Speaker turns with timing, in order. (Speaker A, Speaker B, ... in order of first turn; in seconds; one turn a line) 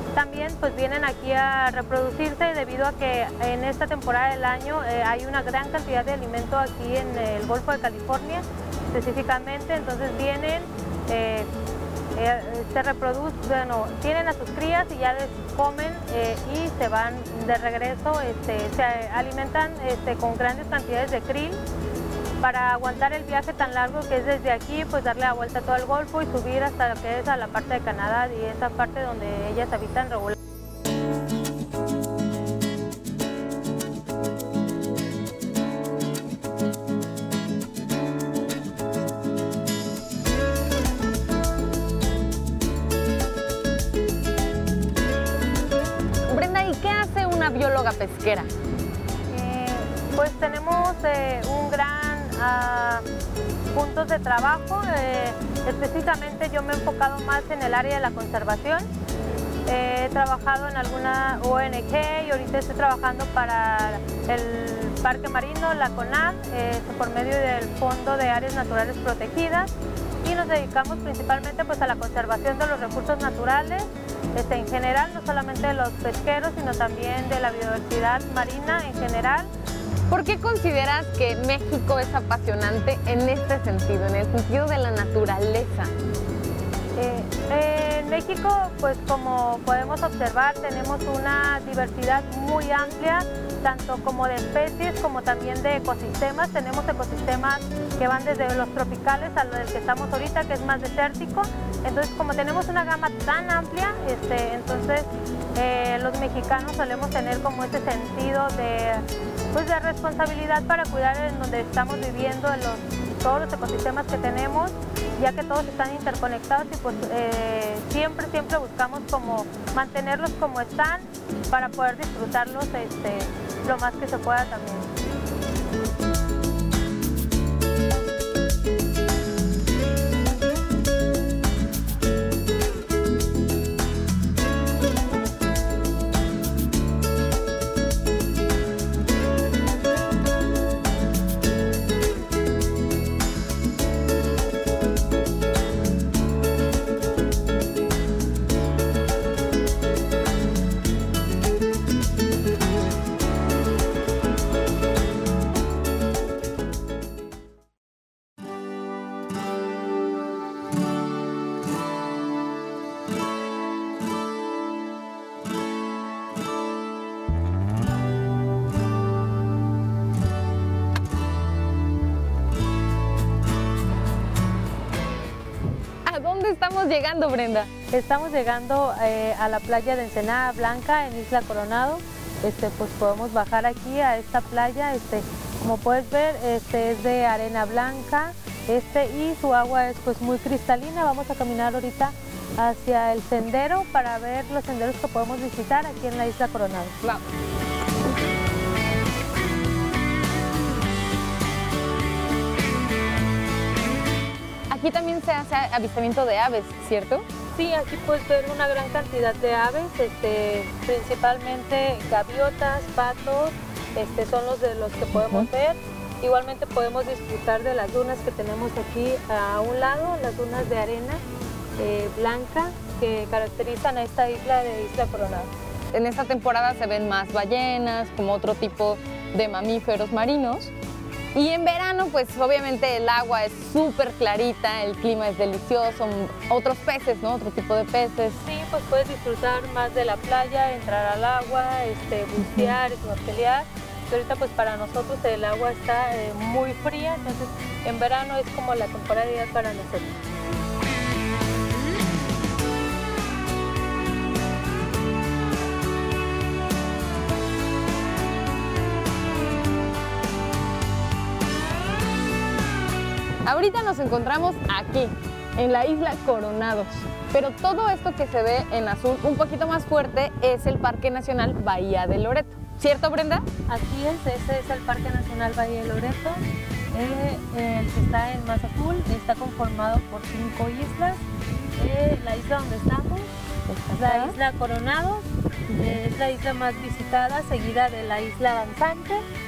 Speaker A: 0.1-11.5
Speaker A: 12.2-21.6
Speaker A: 22.4-30.4
Speaker B: 46.3-48.5
Speaker A: 49.3-53.0
Speaker A: 53.7-58.9
Speaker A: 59.7-69.7
Speaker A: 70.2-79.5
Speaker B: 80.1-85.9
Speaker A: 87.0-124.9
Speaker B: 176.1-177.7
Speaker A: 177.9-197.0
Speaker B: 204.7-207.3
Speaker A: 207.6-221.2
Speaker B: 215.2-215.5
Speaker A: 221.8-225.5
Speaker B: 225.9-230.7
Speaker B: 231.3-238.4
Speaker A: 238.4-250.2
Speaker B: 242.5-242.7
Speaker B: 263.4-273.5
Speaker A: 273.7-281.2
Speaker A: 281.8-283.3
Speaker B: 283.7-284.4
Speaker A: 283.9-289.2